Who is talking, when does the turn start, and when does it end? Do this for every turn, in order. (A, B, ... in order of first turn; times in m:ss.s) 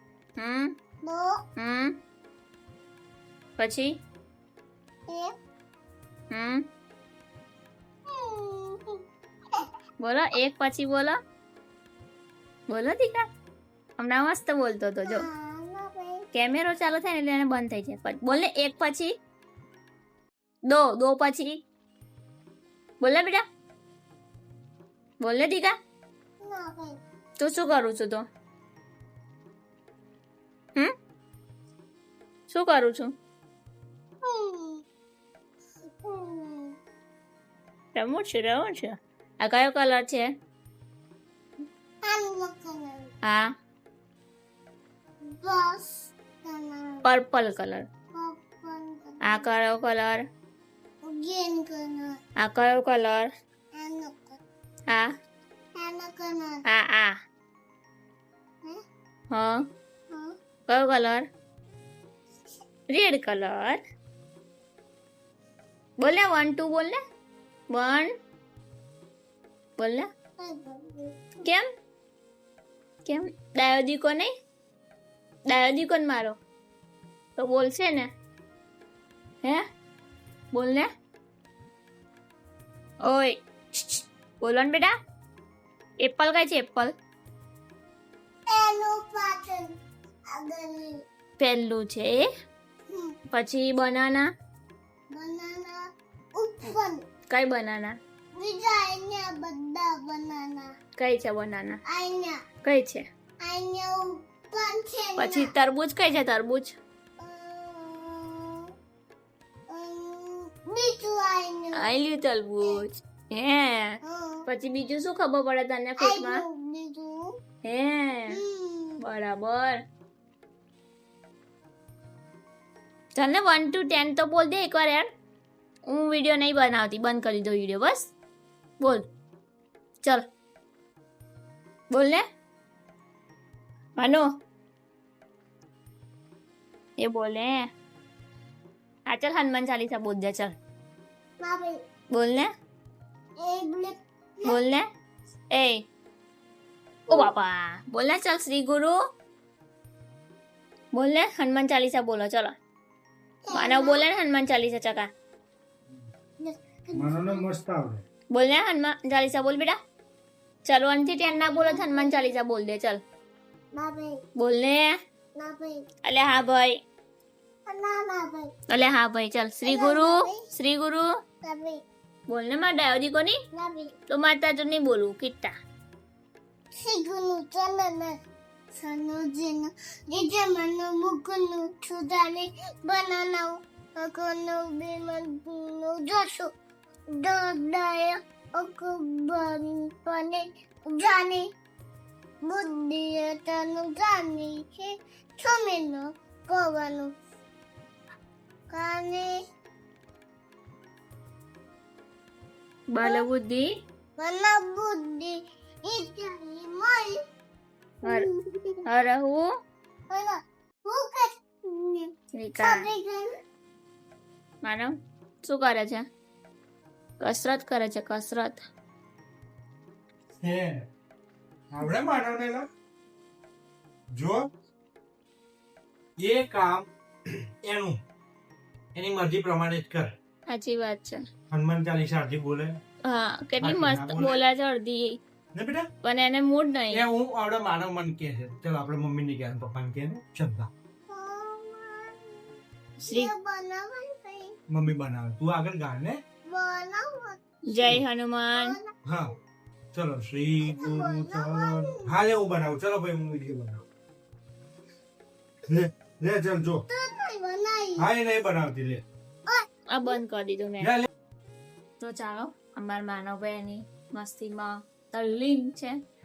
0:00.4-0:00.8 A
0:01.0-0:01.4 B
0:01.6-0:02.0 A
0:03.6-0:04.0 A
0:05.1-0:05.3 B
0:06.3-0:06.6 A
0:08.1-0:09.0 B
0:10.0-0:11.2 A
0:12.7-0:13.2 A
0:14.0-0:15.2 A
0:15.0-0:16.2 B
0:16.3-0:19.1 A
0:20.6-0:21.6 A
0:23.0-0:23.4 A
0:25.2-0:25.7 A
0:26.4-0:27.0 B
0:27.4-0:28.2 A
0:32.5-0:33.1 A
0:34.2-0:34.8 B
0:36.0-0:36.8 B
0:37.9-0:40.3 A
0:42.0-0:43.1 B
0:45.4-0:47.0 B
0:47.0-0:47.9 A
0:48.1-0:49.4 B
0:49.2-0:50.2 A
0:51.0-0:52.2 B
0:52.4-0:53.3 A
0:53.7-0:54.4 B
0:55.8-0:56.6 B
0:56.6-0:57.2 A
0:59.3-0:59.6 A
1:00.7-1:01.2 A
1:02.9-1:03.8 A
1:06.0-1:07.0 A
1:07.7-1:08.1 A
1:09.8-1:10.1 A
1:10.4-1:11.3 B
1:13.0-1:14.3 A
1:15.5-1:16.4 A
1:17.4-1:18.1 A
1:20.5-1:20.9 A
1:23.0-1:24.9 A
1:26.0-1:26.9 A
1:28.5-1:29.7 B
1:30.3-1:31.0 B
1:31.4-1:32.3 A
1:32.9-1:33.2 B
1:33.3-1:34.3 A
1:35.1-1:35.8 B
1:36.3-1:37.0 B
1:37.3-1:38.0 A
1:38.3-1:40.7 B
1:41.0-1:41.8 A
1:41.9-1:42.4 B
1:42.6-1:43.0 A
1:43.4-1:45.5 B
1:45.2-1:46.8 A
1:47.2-1:48.7 B
1:49.7-1:51.8 B
1:51.8-1:56.4 A
1:54.0-1:54.4 B
1:56.0-1:57.3 B
1:57.6-1:58.4 A
1:58.3-1:59.0 B
1:59.0-1:59.8 A
2:03.2-2:05.0 A
2:05.9-2:08.1 A
2:11.9-2:12.2 A
2:14.0-2:14.3 A
2:17.0-2:17.7 A
2:19.1-2:20.5 A
2:21.4-2:21.8 B
2:22.1-2:22.5 A
2:23.4-2:24.6 B
2:24.4-2:24.8 A
2:25.5-2:25.8 A
2:27.1-2:29.0 A
2:30.9-2:32.5 A
2:33.4-2:34.0 B
2:33.5-2:35.1 A
2:36.4-2:37.4 B
2:36.9-2:38.0 C
2:38.3-2:39.8 A
2:40.6-2:43.0 A
2:41.3-2:42.3 B
2:43.7-2:44.2 B
2:44.4-2:44.9 A
2:45.3-2:45.8 B
2:46.0-2:46.8 A
2:47.7-2:48.5 B
2:48.7-2:51.1 A
2:49.6-2:50.4 B
2:51.4-2:51.8 B
2:52.3-2:53.4 A
2:53.5-2:53.9 B
2:54.1-2:55.5 A
2:56.7-2:58.2 B
2:58.7-3:06.5 B
3:07.2-3:11.4 B
3:12.4-3:17.1 B
3:18.7-3:19.4 B
3:22.9-3:23.7 A
3:24.2-3:27.2 B
3:28.0-3:28.8 B
3:28.8-3:29.5 A
3:30.1-3:33.3 B
3:32.4-3:32.9 A
3:34.6-3:36.0 A
3:37.2-3:38.6 A
3:40.4-3:40.8 C
3:41.7-3:42.6 C
3:44.1-3:44.4 C
3:46.2-3:48.0 C
3:48.9-3:50.1 C
3:50.5-3:51.2 A
3:51.5-3:52.7 C
3:53.0-3:55.2 A
3:53.6-3:54.4 C
3:55.5-3:55.9 C
3:56.0-3:57.0 A
3:56.9-4:00.7 C
4:01.1-4:04.5 B
4:03.0-4:03.3 A
4:04.7-4:06.2 C
4:06.5-4:07.4 B
4:07.7-4:08.7 A
4:08.6-4:08.9 B
4:09.0-4:09.3 C
4:09.9-4:13.8 C
4:10.6-4:12.1 B
4:15.7-4:16.8 C
4:16.9-4:18.0 B
4:18.0-4:19.0 C
4:19.5-4:20.2 B
4:19.9-4:20.9 A
4:20.8-4:21.1 C
4:22.0-4:26.0 A